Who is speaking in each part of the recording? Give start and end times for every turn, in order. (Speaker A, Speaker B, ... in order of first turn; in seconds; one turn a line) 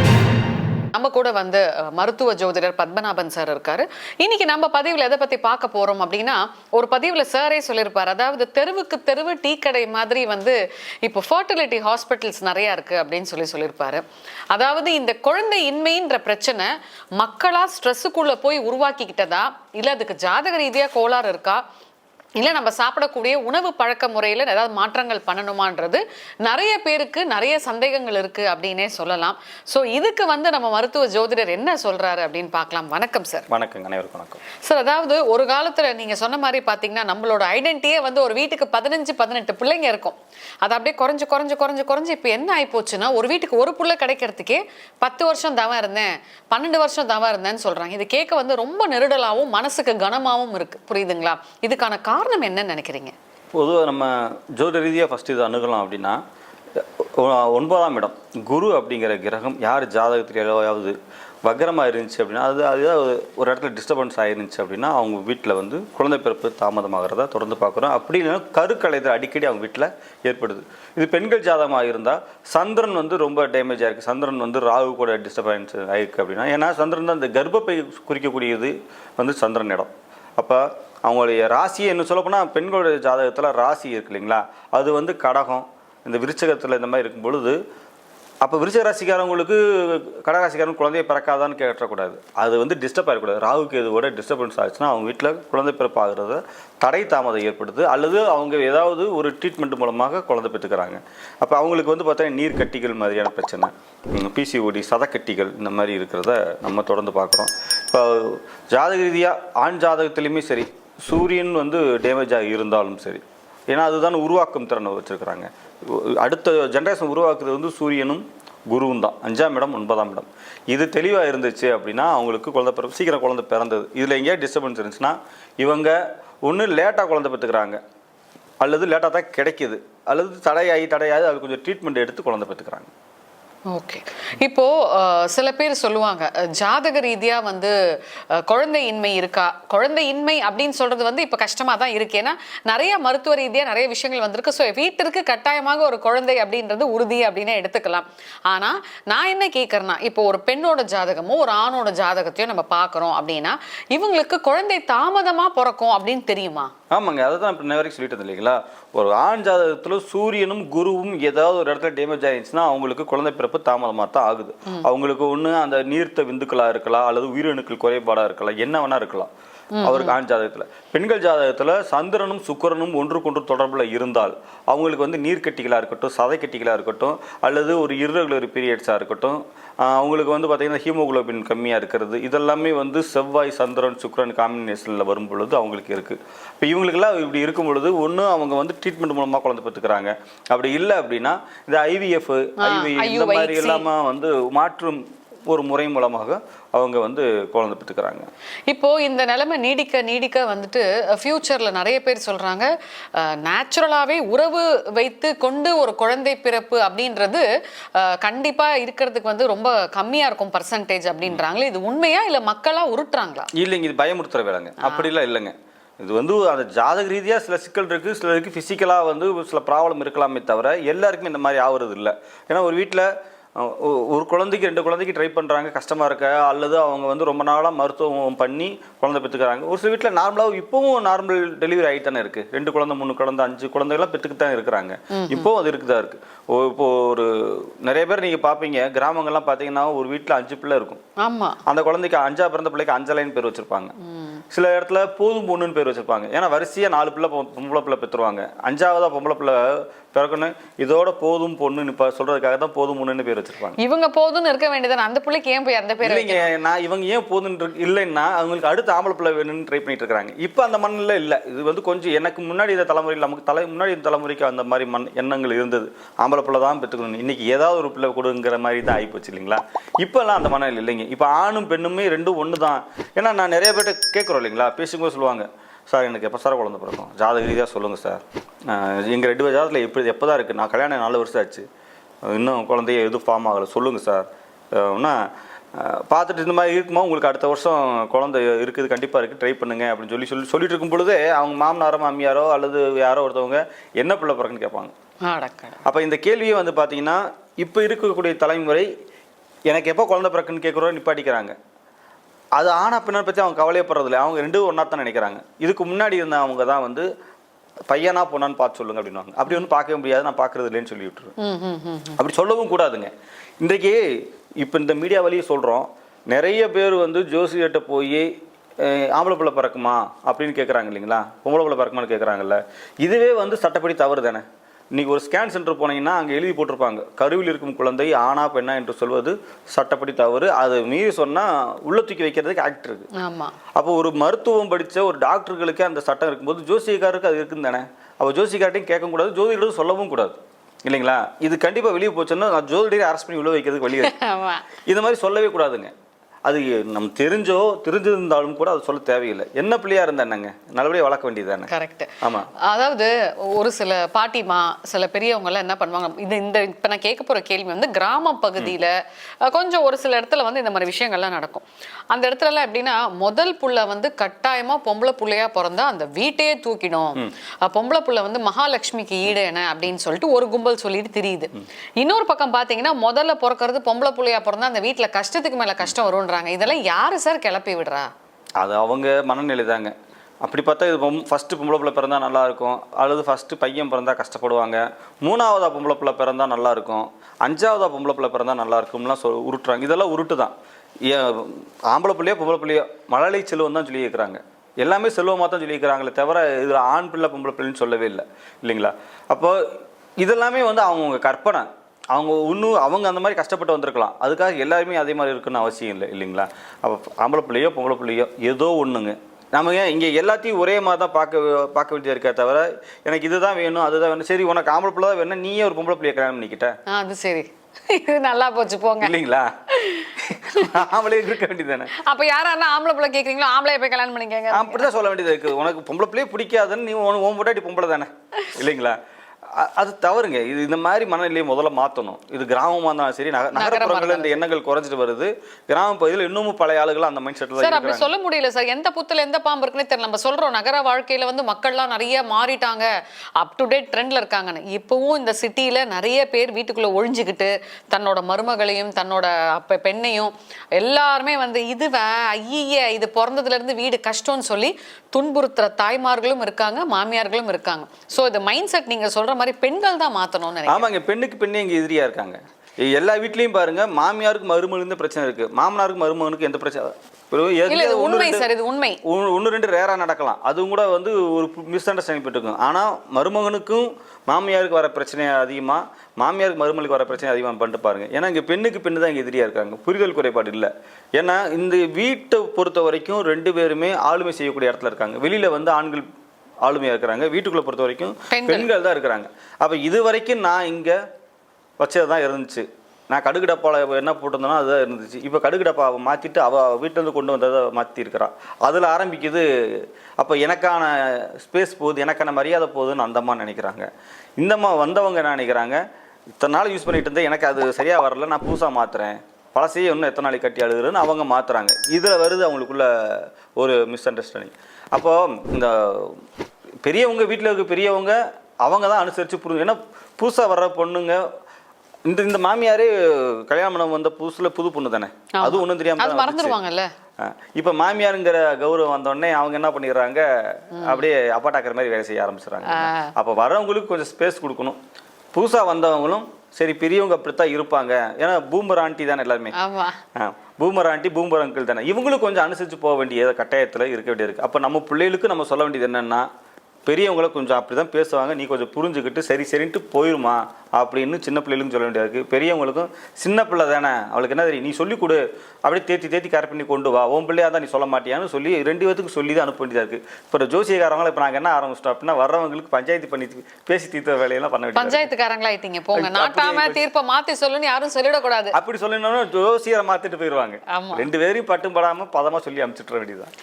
Speaker A: 0.9-21.6
Speaker A: 22.4-33.5
Speaker B: 33.5-34.4
Speaker A: 34.6-53.1
Speaker B: 53.6-56.2
Speaker B: 56.8-87.6
Speaker B: 88.4-127.8
Speaker B: 128.6-132.9
Speaker A: 133.7-137.7
Speaker A: 138.3-156.7
Speaker B: 156.9-169.3
Speaker A: 169.8-170.2
Speaker B: 169.8-198.3
Speaker A: 192.6-193.8
Speaker A: 198.7-213.5
Speaker B: 213.5-241.0
Speaker A: 214.8-215.1
Speaker A: 235.1-235.5
Speaker A: 241.2-241.6
Speaker B: 241.7-243.9
Speaker A: 244.1-244.4
Speaker B: 244.5-253.8
Speaker A: 253.8-256.5
Speaker B: 256.0-281.7
Speaker B: 282.3-285.2
Speaker B: 285.7-294.9
Speaker A: 295.2-295.8
Speaker B: 295.9-298.9
Speaker B: 299.7-301.6
Speaker B: 302.6-307.1
Speaker B: 307.9-311.3
Speaker A: 311.4-312.2
Speaker B: 312.2-313.1
Speaker B: 313.6-314.0
Speaker B: 314.6-318.3
Speaker B: 318.8-324.4
Speaker B: 325.0-333.1
Speaker A: 333.1-333.6
Speaker B: 333.8-344.1
Speaker A: 343.9-344.7
Speaker B: 344.9-345.9
Speaker B: 346.5-351.7
Speaker A: 351.7-378.1
Speaker B: 352.2-352.5
Speaker B: 378.6-390.5
Speaker B: 391.1-399.6
Speaker B: 400.2-416.8
Speaker A: 416.9-419.1
Speaker B: 419.0-419.6
Speaker A: 419.7-420.8
Speaker B: 420.2-421.9
Speaker A: 421.9-424.9
Speaker B: 424.5-429.0
Speaker B: 429.5-438.1
Speaker A: 433.5-434.4
Speaker A: 437.6-460.9
Speaker B: 460.7-468.5
Speaker A: 467.7-469.0
Speaker B: 469.0-486.1
Speaker B: 486.6-491.0
Speaker A: 488.3-488.7
Speaker B: 491.8-503.9
Speaker B: 504.4-505.8
Speaker B: 506.4-516.2
Speaker B: 516.9-521.2
Speaker B: 522.1-526.6
Speaker A: 525.4-526.9
Speaker B: 527.2-534.8
Speaker A: 530.8-531.0
Speaker A: 532.7-533.1
Speaker B: 535.3-539.5
Speaker A: 539.5-540.0
Speaker B: 540.1-546.3
Speaker B: 546.9-565.1
Speaker A: 564.8-568.5
Speaker B: 565.9-566.9
Speaker B: 568.5-573.3
Speaker A: 570.7-571.1